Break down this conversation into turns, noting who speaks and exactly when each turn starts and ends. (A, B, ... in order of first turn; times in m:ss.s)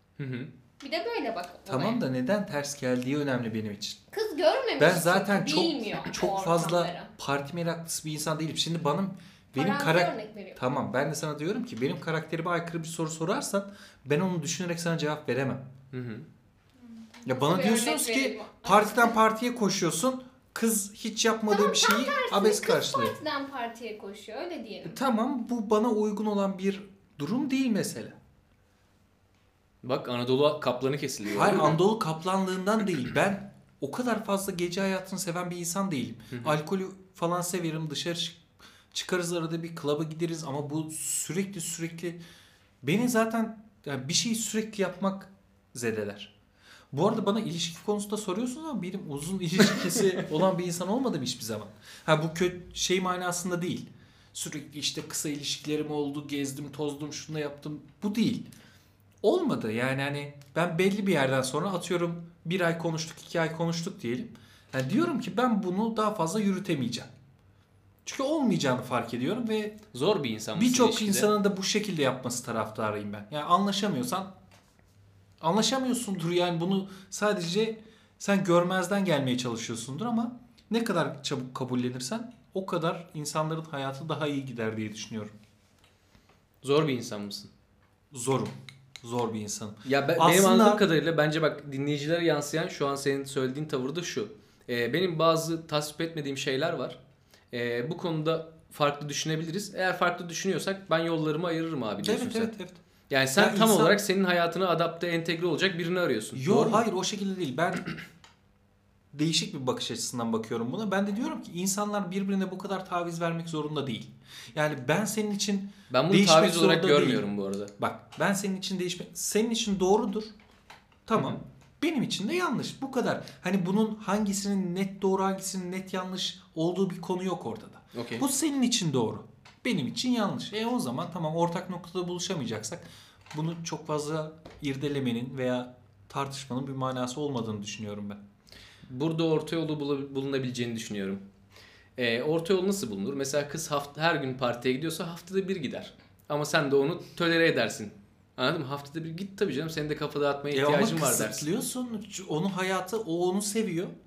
0:00.2-0:00.5 A
0:00.8-0:02.0 B
0:01.7-0:04.0 C
0:04.1-0:07.1 B
0:04.8-0:15.6 C
0:09.5-0:10.6 B
0:15.9-0:16.2 A
0:16.9-0:19.1 B
0:17.2-0:23.2 C
0:21.5-0:25.0 B
0:24.8-0:28.2 C
0:29.8-0:31.8 A
0:31.3-0:42.2 C
0:42.8-0:46.3 C
0:46.9-0:58.5 C
0:59.2-1:07.1 C
1:08.0-1:09.8 C
1:09.9-1:11.3 A
1:10.5-1:14.3 C
1:15.4-1:25.3 C
1:26.6-1:27.5 A
1:28.1-1:30.8 C
1:29.8-1:37.0 A
1:37.5-1:42.5 A
1:42.0-1:42.8 C
1:43.1-1:46.8 A
1:43.3-1:44.0 C
1:46.3-1:47.9 C
1:49.1-1:57.2 C
1:55.9-1:57.7 A
1:57.8-2:00.3 C
2:01.1-2:18.2 C
2:01.1-2:01.4 A
2:07.9-2:08.2 A
2:18.9-2:21.2 A
2:22.0-2:31.4 A
2:30.5-2:33.9 C